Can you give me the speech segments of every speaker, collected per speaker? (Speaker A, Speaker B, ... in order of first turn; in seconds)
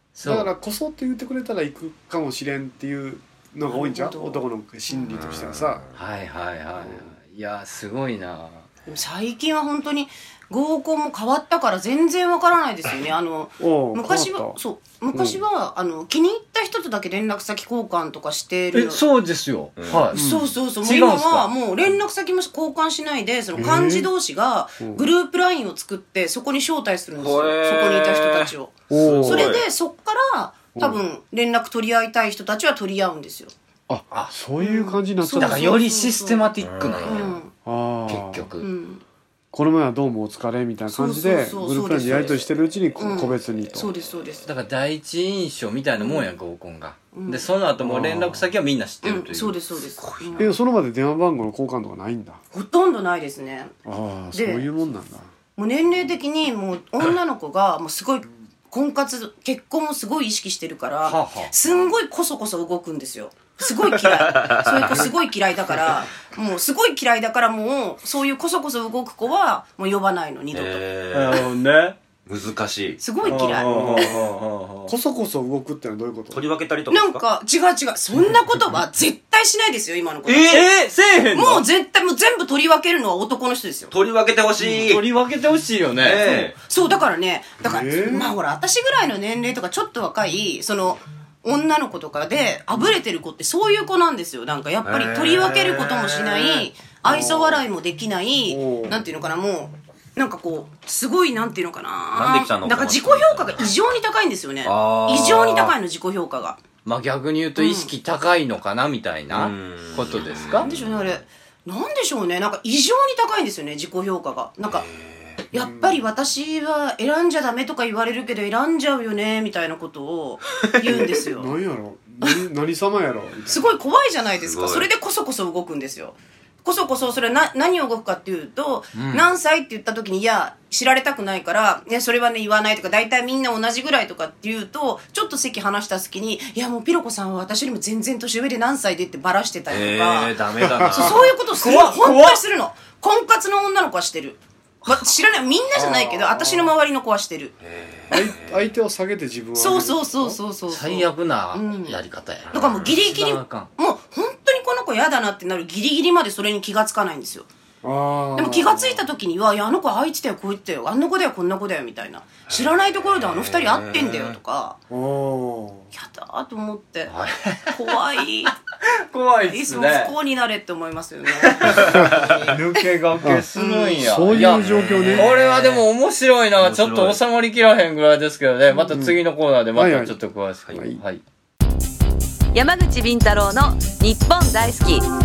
Speaker A: 0.1-0.5, 5.9-8.6, 18.7-20.2, 20.8-21.5, 35.4-37.3, 38.1-38.7, 44.4-49.6, 61.0-61.5, 71.1-72.0, 73.2-74.9, 80.4-81.6, 84.6-86.2, 106.8-110.7, 141.6-142.4, 150.7-153.7, 167.1-167.9, 169.1-170.1, 171.4-181.2
Speaker B: 0.2-5.8, 6.8-7.1, 13.6-14.6, 15.1-15.4, 20.1-20.5, 23.6-24.1, 24.8-25.1, 28.9-29.5, 30.8-31.0, 33.9-35.8, 37.6-38.5, 39.5-43.9, 47.8-48.5, 50.4-52.4, 53.9-55.3, 73.5-74.3, 74.9-76.5, 87.6-88.3, 97.0-97.7, 98.5-99.0, 115.5-116.0, 120.8-123.7, 140.7-141.1, 145.7-146.7, 148.1-150.4, 157.8-159.1, 164.9-165.9, 171.9-172.1, 173.2-175.3, 178.9-179.2, 179.7-180.2, 180.7-181.0
Speaker C: 3.7-5.1, 8.9-19.0, 20.1-33.5, 34.6-36.5, 37.0-37.5, 38.6-39.0, 40.9-42.4, 43.0-44.5, 46.0-46.3, 47.1-47.5, 49.0-50.5, 52.5-53.7, 54.3-54.7, 55.5-70.8, 73.0-74.1, 76.9-80.7, 81.3-83.9, 86.2-106.6, 107.5-107.9, 110.6-114.8, 115.5-121.5, 123.5-140.3, 140.9-147.5, 149.6-152.0, 152.5-157.5, 158.3-164.8, 165.9-167.1, 167.7-168.5, 169.5-172.5, 173.5-174.2
Speaker D: 5.1-5.9, 19.8-20.1, 27.2-29.6, 36.6-37.4, 50.0-50.5, 64.1-65.1, 70.5-71.5, 72.2-73.5, 76.3-77.2, 80.2-80.7, 83.9-85.0, 86.0-86.5, 94.8-96.7, 102.1-103.7, 104.6-105.7, 109.3-111.2, 114.7-115.4, 124.4-124.9, 128.9-129.3, 139.7-141.4, 147.6-148.7, 152.5-153.0, 163.1-164.4, 171.6-172.4, 174.3-175.8, 176.6-177.2
Speaker E: 182.5-185.1